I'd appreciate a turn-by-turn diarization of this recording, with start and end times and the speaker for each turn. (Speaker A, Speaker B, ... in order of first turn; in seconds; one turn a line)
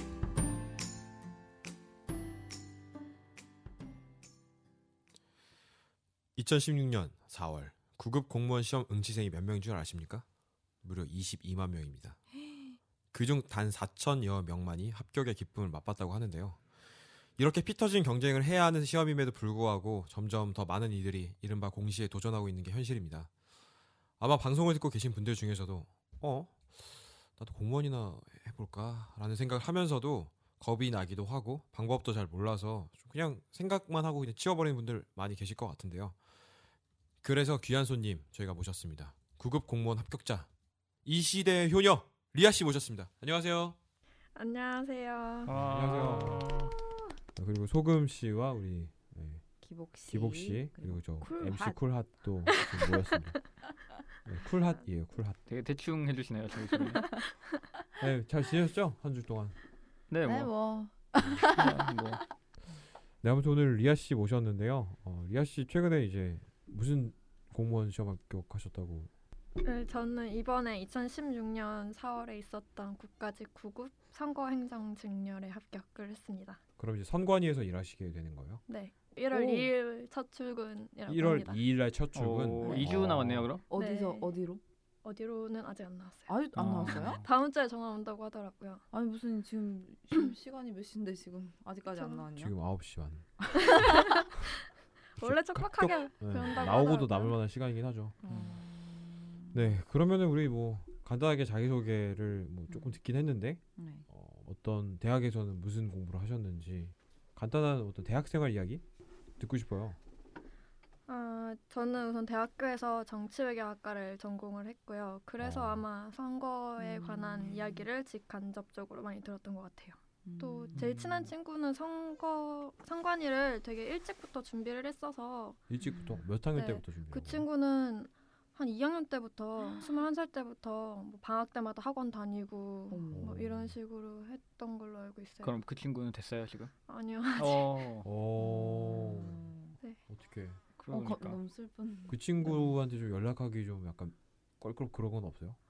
Speaker A: 6.4-10.2
Speaker A: 10.8-12.2
Speaker B: 12.5-12.8
Speaker A: 13.1-16.6
Speaker A: 17.4-23.3
Speaker A: 24.2-36.2
Speaker A: 37.2-40.5
Speaker A: 41.0-43.8
Speaker C: 44.4-45.5
Speaker A: 45.5-46.6
Speaker D: 45.5-46.7
Speaker A: 47.4-49.4
Speaker B: 49.6-51.8
Speaker A: 50.1-53.4
Speaker C: 52.5-53.1
Speaker A: 54.2-55.4
Speaker D: 55.5-57.1
Speaker A: 58.0-59.6
Speaker D: 60.1-60.5
Speaker B: 60.2-62.0
Speaker D: 61.2-62.2
Speaker A: 63.2-69.1
Speaker C: 69.6-76.6
Speaker A: 76.8-78.6
Speaker C: 78.7-81.6
Speaker B: 79.3-79.7
Speaker A: 81.1-83.5
Speaker D: 82.1-83.6
Speaker B: 82.6-83.1
Speaker B: 83.7-84.6
Speaker C: 83.7-84.3
Speaker C: 85.0-86.3
Speaker B: 86.3-87.2
Speaker D: 86.5-87.3
Speaker C: 87.0-88.8
Speaker B: 88.9-92.5
Speaker C: 92.0-92.2
Speaker A: 92.4-93.3
Speaker B: 93.5-94.2
Speaker C: 93.6-94.6
Speaker A: 95.2-98.2
Speaker C: 95.2-97.4
Speaker B: 98.2-99.6
Speaker D: 98.3-98.6
Speaker A: 99.5-108.8
Speaker B: 102.7-103.0
Speaker B: 103.8-104.0
Speaker A: 109.4-110.0
Speaker C: 111.1-125.6
Speaker A: 115.4-115.8
Speaker B: 116.8-117.9
Speaker B: 120.2-120.8
Speaker D: 120.8-121.3
Speaker A: 125.7-127.5
Speaker B: 125.8-126.3
Speaker C: 126.5-135.5
Speaker B: 132.9-133.4
Speaker A: 133.1-133.7
Speaker D: 135.4-136.7
Speaker C: 136.9-137.8
Speaker D: 137.4-138.1
Speaker A: 138.0-139.5
Speaker B: 138.4-139.8
Speaker A: 140.1-140.6
Speaker D: 140.8-141.4
Speaker B: 140.9-142.7
Speaker A: 142.1-145.6